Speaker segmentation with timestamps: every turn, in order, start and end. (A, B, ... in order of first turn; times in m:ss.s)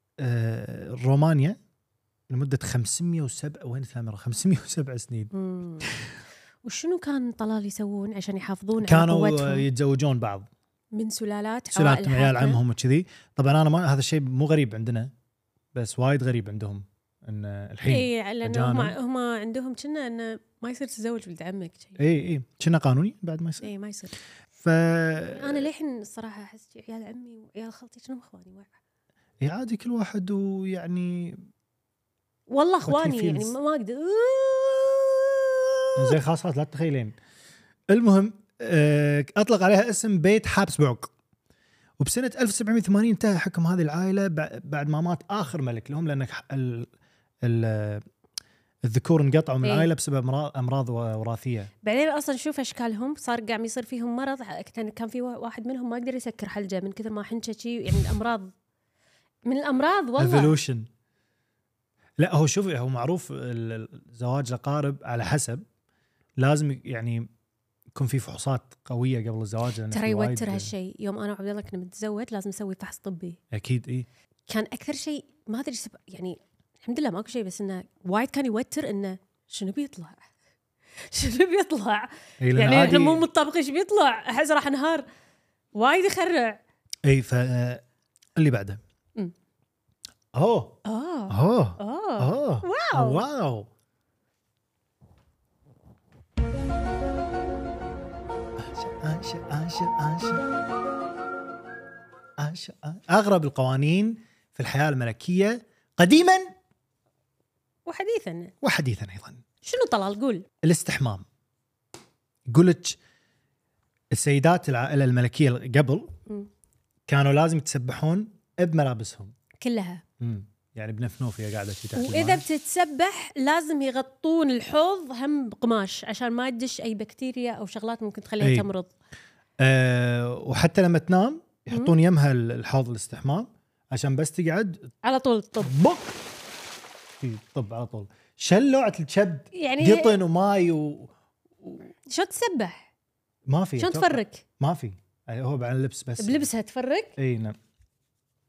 0:00.2-0:01.6 A
0:02.3-0:05.3 A
0:05.3-0:05.9 B
0:06.6-0:09.6 B
0:08.8-0:10.5 A
0:10.9-0:12.6 B
0:11.7-0:15.1 A
0:15.7-0:19.0 A
0:17.9-0:22.0 B
0:22.0-0:23.7 A
0:23.6-0:24.2 B
0:24.6-0:25.6 A
0:25.4-0:28.7 B
0:29.4-0:31.4 A
0:32.5-0:36.2 B
0:32.8-0:33.5 A
0:36.0-0:37.2 A
0:37.9-0:41.1 A
0:42.0-0:46.9 A
0:47.4-0:48.0 A
0:48.8-0:51.7 A
0:49.6-0:49.9 B
0:51.8-0:58.5 B
0:59.4-1:00.6 B
1:00.2-1:00.9 A
1:02.2-1:05.6 A
1:06.4-1:07.3 A
1:07.9-1:10.7 A
1:09.9-1:13.4 B
1:13.5-1:14.1 A
1:14.5-1:20.3 B
1:21.1-1:25.1 B
1:22.4-1:23.2 A
1:25.8-1:26.6 B
1:27.0-1:27.8 A
1:28.4-1:28.8 A
1:30.3-1:30.8 A
1:30.8-1:33.2 B
1:31.3-1:33.7 A
1:38.6-1:40.5 A
1:42.4-1:46.5 A
1:47.9-1:48.5 B
1:48.6-1:49.4 A
1:49.6-1:50.5 B
1:50.6-1:51.2 A
1:52.5-1:53.0 A
1:54.1-1:56.1 A
1:57.1-1:59.3 A
1:59.6-2:00.0 B
2:00.2-2:02.4 A
2:02.0-2:08.9 B
2:08.4-2:08.7 A
2:09.6-2:14.9 A
2:15.0-2:15.7 B
2:15.6-2:16.2 A
2:17.2-2:21.8 A
2:19.5-2:20.2 B
2:22.0-2:22.9 B
2:23.5-2:26.5 A
2:23.8-2:24.4 B
2:26.2-2:27.2 B
2:27.2-2:27.6 A